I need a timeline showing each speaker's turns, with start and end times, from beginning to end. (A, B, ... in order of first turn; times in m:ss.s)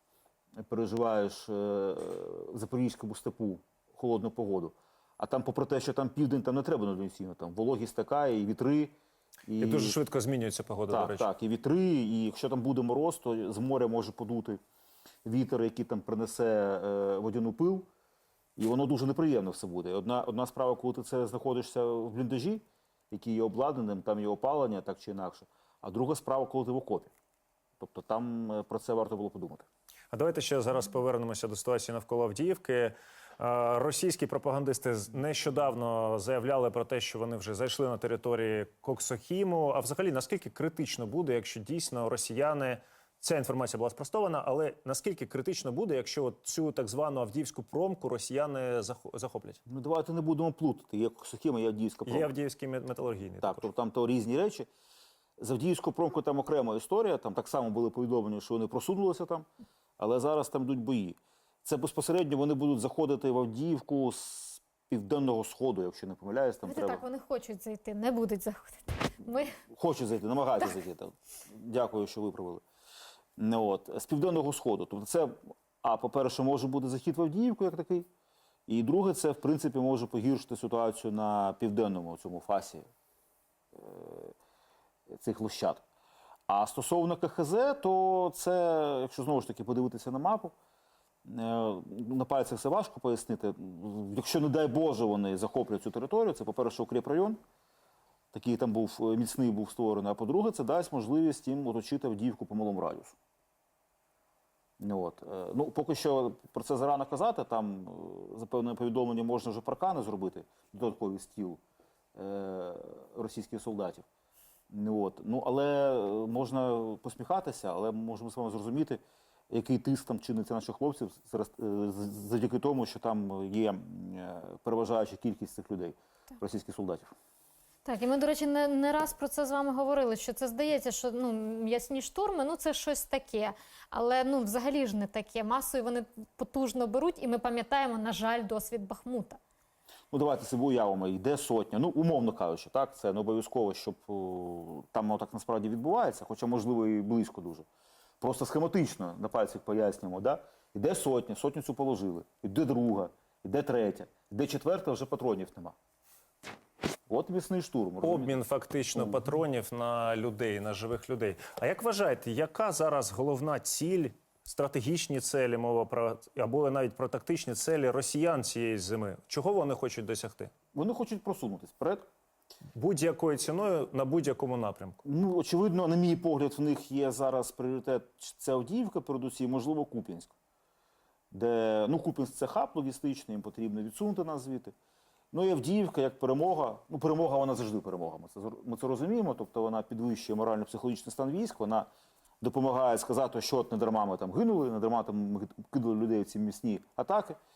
0:00.6-0:08.9 A
0:09.4-0:10.0 A
0:09.6-0:11.3 B
0:10.9-0:14.6 A
0:15.2-0:17.9 A
0:18.6-0:27.1 A
0:27.8-0:29.6 A
0:30.1-0:49.6 B
0:49.7-0:52.3 A
0:52.0-0:53.6 B
0:53.4-0:54.7 A
0:55.4-0:59.5 A
1:00.0-1:07.0 A
1:06.6-1:09.5 C
1:09.6-1:12.6 A
1:13.4-1:18.1 A
1:18.7-1:22.9 A
1:23.7-1:24.3 A
1:25.1-1:25.8 A
1:26.5-1:30.5 A
1:31.2-1:37.4 A
1:38.3-1:43.2 A
1:44.8-1:51.6 A
1:52.1-1:54.0 A
1:54.7-2:07.1 A
2:07.8-2:19.4 C
2:20.1-2:27.6 A
2:28.2-2:35.7 A
2:37.1-2:38.4 A
2:38.0-2:50.5 B
2:39.0-2:39.2 A
2:50.7-2:52.0 A
2:52.7-2:55.0 B
2:55.0-3:00.3 A
3:01.3-3:04.7 A
3:05.3-3:11.9 A
3:12.4-3:17.4 A